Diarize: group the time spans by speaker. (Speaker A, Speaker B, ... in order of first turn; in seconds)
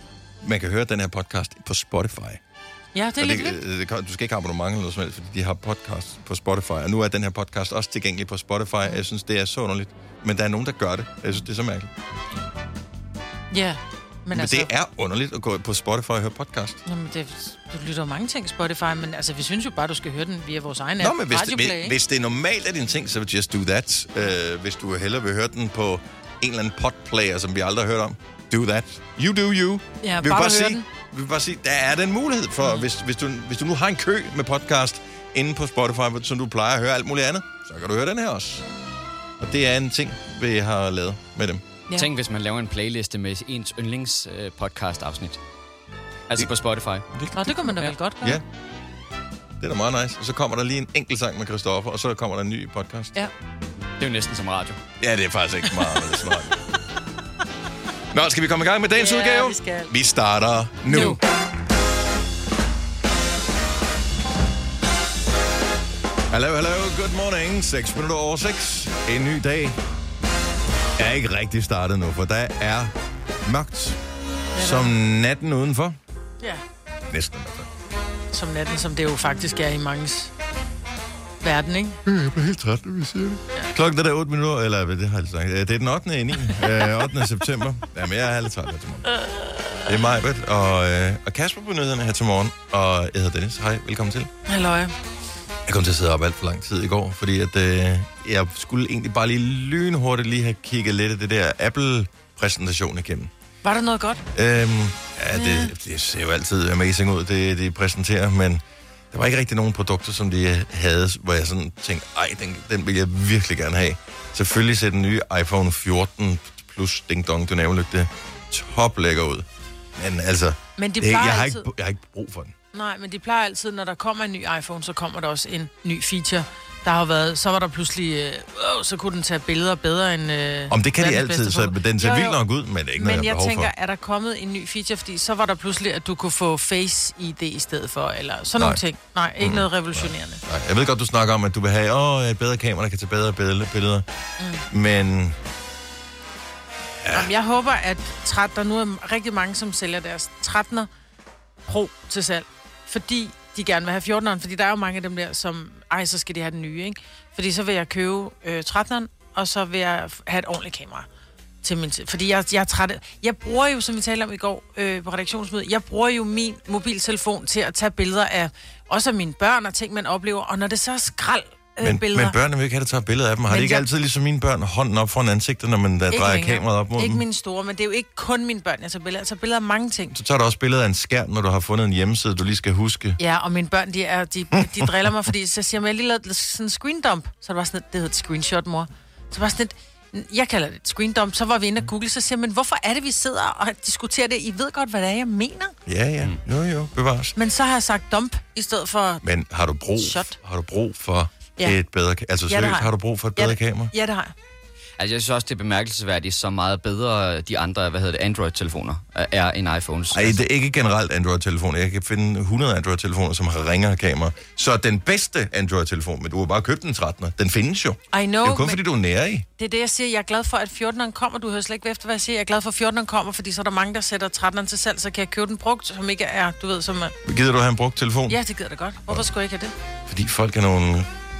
Speaker A: 0.4-2.4, 3.2-11.9, 14.3-16.8, 21.0-38.6, 39.4-41.6, 47.1-47.6, 49.6-53.1, 55.0-56.5, 58.1-61.2, 66.3-69.8, 71.0-72.9, 73.4-74.0, 74.5-76.0, 77.1-77.7, 82.0-89.1, 89.8-94.3, 95.7-103.3, 104.3-108.6, 109.1-122.5, 130.7-133.7, 139.4-144.0, 144.7-145.3, 147.0-147.3, 171.8-177.2, 180.1-183.2, 184.6-185.1, 195.8-197.3, 199.2-203.9, 210.1-219.4, 227.2-228.4, 230.1-231.1
Speaker B: 2.9-3.6, 13.5-14.7, 16.8-21.9, 30.0-30.8, 47.3-48.4, 58.9-59.9, 60.9-61.2, 74.5-74.9, 78.3-80.3, 81.4-82.0, 89.1-89.9, 94.5-94.9, 103.6-104.2, 105.3-105.7, 120.8-121.7, 122.7-132.4, 133.0-140.4, 147.1-150.9, 151.7-161.1, 161.6-172.3, 173.5-173.8, 176.1-180.2, 183.2-195.7, 197.3-199.2, 200.0-200.4, 202.5-204.3, 218.1-218.8, 219.6-227.1, 228.3-229.7
Speaker C: 41.9-45.4, 46.3-47.0, 54.0-54.8, 205.0-210.4